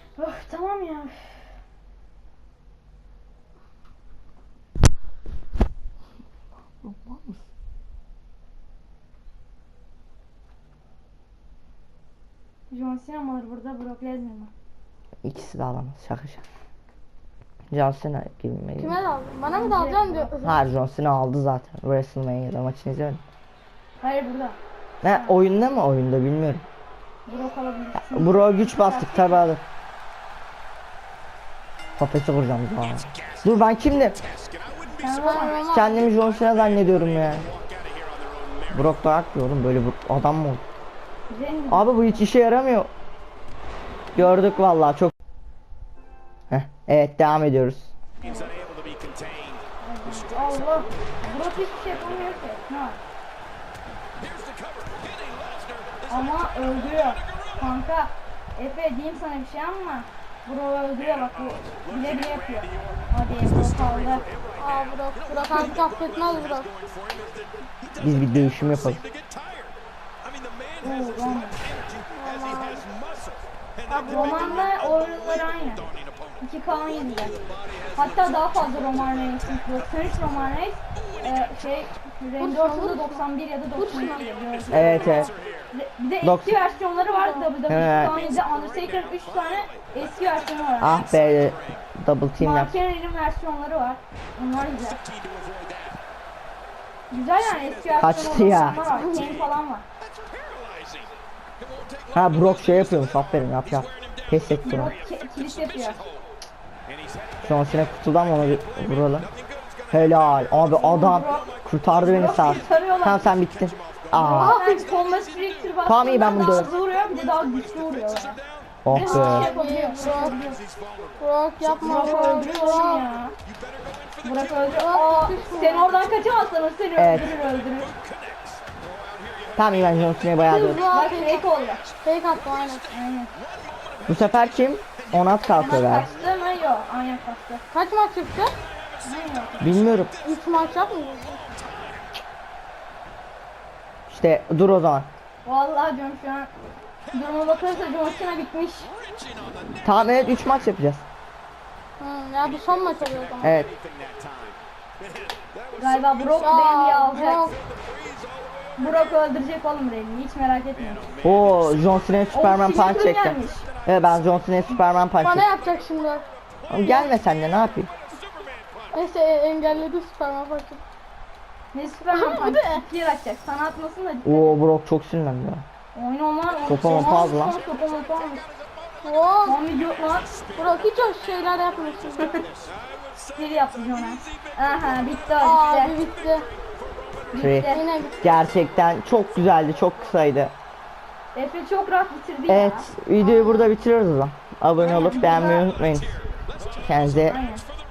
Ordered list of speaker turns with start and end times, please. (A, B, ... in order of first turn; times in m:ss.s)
0:00.2-0:01.2 A
0:06.8-0:07.4 B
0:12.7-0:14.5 A
0:15.2-0:16.4 B
0:17.7-0:19.0 B
0:18.8-0:20.6 C
0:19.4-0:20.3 A
0:20.4-0:23.2 B
0:24.0-0:24.6 A
0:25.0-0:26.6 B
0:25.1-0:25.4 A
0:27.2-0:29.4 A
0:27.9-0:29.6 B
0:32.0-0:34.2 B
0:32.9-0:39.0 D
0:35.0-0:35.8 A
0:35.1-0:36.0 C
0:35.7-0:37.4 B
0:38.7-0:40.6 B
0:41.3-0:42.2 A
0:41.7-0:42.9 B
0:44.1-0:45.1 B
0:44.2-0:44.6 A
0:46.5-0:47.9 B
0:48.2-0:48.5 A
0:48.2-0:52.6 D
0:49.8-0:53.0 A
0:54.2-0:57.7 D
0:56.1-1:04.2 A
1:01.0-1:21.9 D
1:04.6-1:06.7 C
1:08.0-1:09.0 B
1:10.8-1:11.6 A
1:12.1-1:12.8 C
1:13.9-1:14.8 C
1:14.1-1:15.8 A
1:16.4-1:17.4 A
1:17.9-1:31.0 A
1:22.4-1:24.3 C
1:23.9-1:25.7 D
1:24.7-1:25.3 B
1:26.2-1:26.6 B
1:27.0-1:27.5 C
1:27.7-1:28.2 B
1:27.8-1:31.9 D
1:30.8-1:32.8 B
1:32.4-1:35.0 A
1:34.7-1:36.0 D
1:37.1-1:39.8 A
1:37.4-1:46.3 D
1:38.0-1:38.8 B
1:38.9-1:39.3 C
1:42.1-1:44.9 B
1:44.6-1:46.0 A
1:46.8-1:58.8 D
1:47.4-1:49.3 B
1:49.9-1:54.6 B
1:50.7-1:51.5 A
1:52.0-1:53.2 A
1:54.1-1:54.8 C
1:54.1-2:00.6 A
1:55.8-1:56.7 B
1:58.8-1:59.5 B
1:59.0-2:00.4 C
2:00.2-2:02.3 D
2:01.2-2:03.1 C
2:01.8-2:03.3 A
2:03.4-2:04.9 D
2:04.2-2:07.9 A
2:04.7-2:05.9 C
2:05.8-2:06.5 D
2:07.0-2:07.4 B
2:07.1-2:16.5 D
2:09.6-2:11.0 B
2:10.5-2:12.8 C
2:10.7-2:11.8 A
2:12.9-2:13.3 A
2:14.0-2:16.1 B
2:15.6-2:17.6 A
2:17.7-2:18.6 C
2:18.5-2:22.2 D
2:19.0-2:19.9 A
2:19.6-2:20.1 B
2:20.2-2:21.4 C
2:24.1-2:25.1 B
2:25.4-2:26.5 A
2:27.1-2:28.9 A
2:27.9-2:28.2 D
2:28.9-2:29.8 D
2:29.8-2:31.0 B
2:32.0-2:33.6 C
2:32.4-2:39.2 D
2:33.4-2:33.7 B
2:35.8-2:37.5 A
2:36.4-2:37.6 C
2:38.8-2:41.1 A
2:40.7-2:44.6 D
2:41.2-2:45.5 B
2:42.3-2:43.7 A
2:45.2-2:46.2 C
2:45.4-2:49.0 D
2:46.7-2:47.9 B
2:48.9-2:50.8 C
2:51.7-2:54.6 A
2:52.1-2:52.8 C
2:54.2-2:55.6 B
2:55.9-2:58.5 A
2:56.6-2:57.6 B
2:56.6-3:07.6 D
2:57.0-2:57.3 C
2:59.0-2:59.6 C
2:59.4-3:00.3 A
3:00.6-3:02.4 C
3:03.3-3:06.0 A
3:05.4-3:06.4 C
3:07.3-3:08.2 A
3:07.4-3:10.5 B
3:07.6-3:08.4 C
3:08.3-3:08.6 D
3:11.3-3:13.7 A
3:12.5-3:16.1 B
3:14.8-3:15.7 A
3:15.3-3:17.6 D
3:16.7-3:17.4 B
3:17.1-3:17.6 A